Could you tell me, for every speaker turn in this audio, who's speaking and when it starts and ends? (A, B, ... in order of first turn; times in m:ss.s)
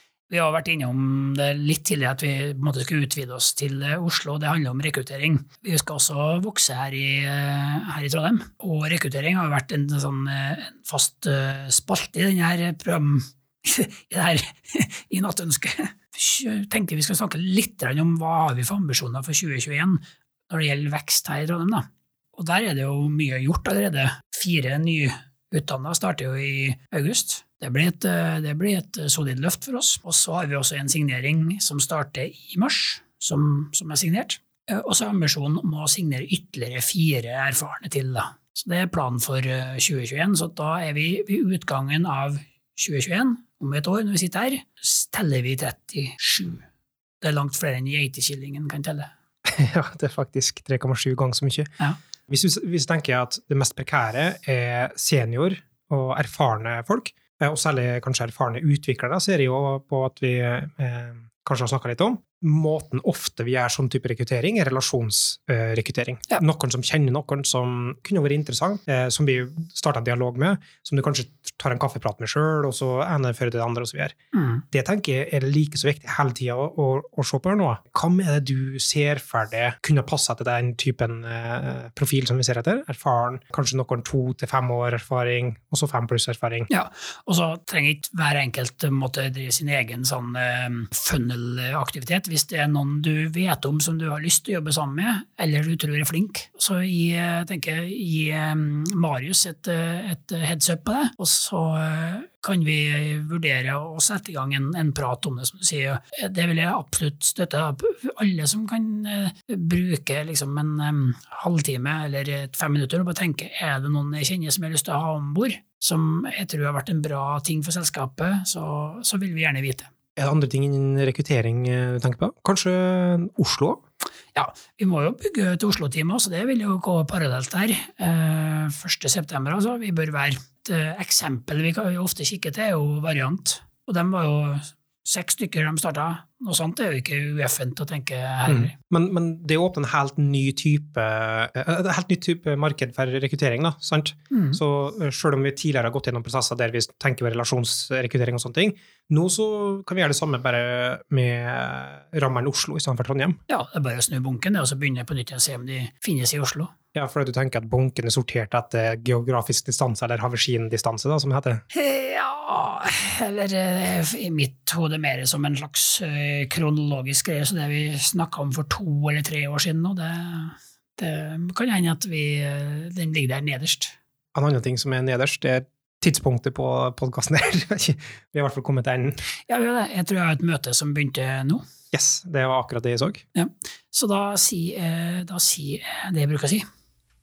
0:00.3-0:46.6 A
0:47.2-0:49.1 A
0:49.4-0:51.7 B
0:52.3-1:14.1 B
1:14.3-1:14.6 A
1:14.7-1:26.7 B
1:26.7-1:59.9 A
2:00.2-2:03.8 B
2:04.4-2:18.7 A
2:18.5-2:33.4 B
2:24.3-2:24.6 A
2:33.5-2:36.7 A
2:36.9-2:41.6 B
2:41.7-2:53.9 A
2:54.4-2:59.2 B
2:59.5-3:01.6 A
3:01.9-3:03.2 B
3:03.4-3:06.6 A